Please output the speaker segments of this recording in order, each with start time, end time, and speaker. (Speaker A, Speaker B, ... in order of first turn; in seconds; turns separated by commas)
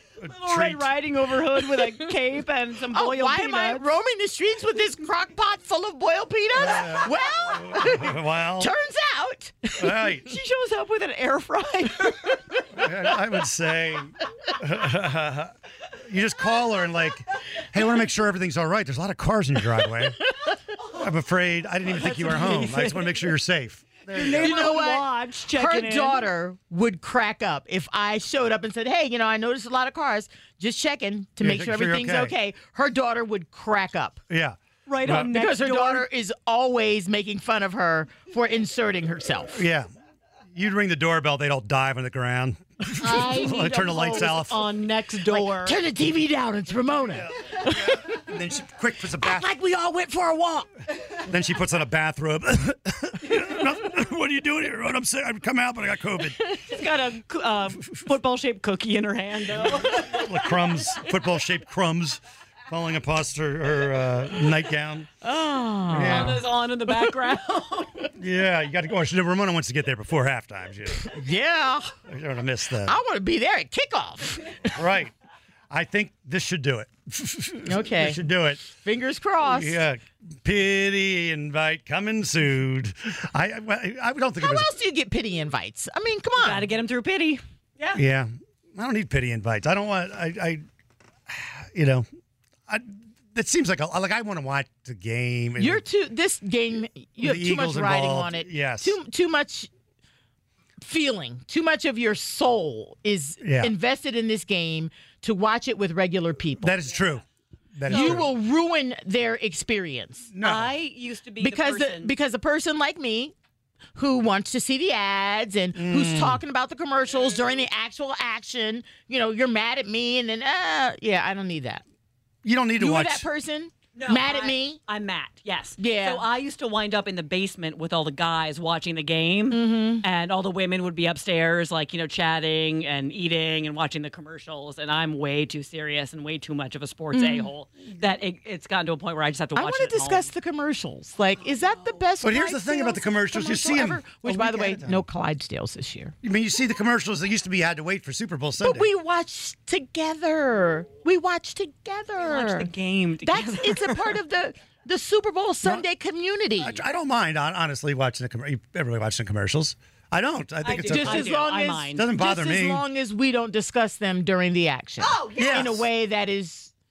Speaker A: 0.2-3.9, Speaker B: 0.3-0.9, Speaker C: 2.9-9.9, Speaker B: 6.5-8.7, Speaker B: 9.8-10.4, Speaker A: 10.2-12.7, Speaker B: 12.7-15.5, Speaker B: 16.1-20.2, Speaker B: 20.9-24.7, Speaker A: 21.9-23.1, Speaker A: 24.1-26.2, Speaker C: 24.4-34.2, Speaker B: 31.4-32.4, Speaker B: 34.3-35.3, Speaker A: 34.9-36.1, Speaker C: 35.1-39.7, Speaker B: 39.5-39.9, Speaker B: 40.5-44.7, Speaker C: 43.0-44.4, Speaker A: 43.0-45.8, Speaker C: 45.3-48.3, Speaker B: 47.0-49.5, Speaker C: 49.2-50.7, Speaker B: 51.3-56.4, Speaker A: 56.6-60.1, Speaker B: 59.9-65.1, Speaker C: 65.2-66.4, Speaker B: 65.9-66.4, Speaker A: 65.9-68.1, Speaker B: 68.2-71.1, Speaker C: 71.0-72.0, Speaker B: 72.1-73.0, Speaker C: 72.8-74.7, Speaker B: 74.7-75.1, Speaker B: 75.7-78.7, Speaker C: 77.7-79.8, Speaker B: 79.4-84.7, Speaker C: 84.4-86.7, Speaker A: 86.4-88.0, Speaker B: 87.9-90.6, Speaker B: 91.3-92.1, Speaker B: 92.7-95.8, Speaker C: 95.6-99.7, Speaker B: 97.2-99.0, Speaker C: 100.8-106.8, Speaker B: 103.4-103.7, Speaker B: 106.6-107.2, Speaker B: 107.8-108.3, Speaker C: 107.9-110.3, Speaker A: 107.9-108.2, Speaker B: 110.3-110.7, Speaker A: 110.4-112.1, Speaker C: 111.4-113.3, Speaker C: 114.0-121.8, Speaker B: 115.7-116.4, Speaker B: 122.4-123.3, Speaker C: 122.8-124.8, Speaker A: 124.0-140.3, Speaker C: 125.8-126.3, Speaker C: 129.5-130.1, Speaker C: 137.1-137.5, Speaker C: 139.6-146.1, Speaker B: 142.2-145.1, Speaker B: 146.2-148.9, Speaker C: 148.6-152.7, Speaker A: 152.2-154.0, Speaker C: 153.2-156.8, Speaker B: 156.6-161.3, Speaker A: 160.6-162.0, Speaker C: 160.8-166.7, Speaker B: 162.0-162.8, Speaker A: 165.0-165.8, Speaker B: 165.4-165.8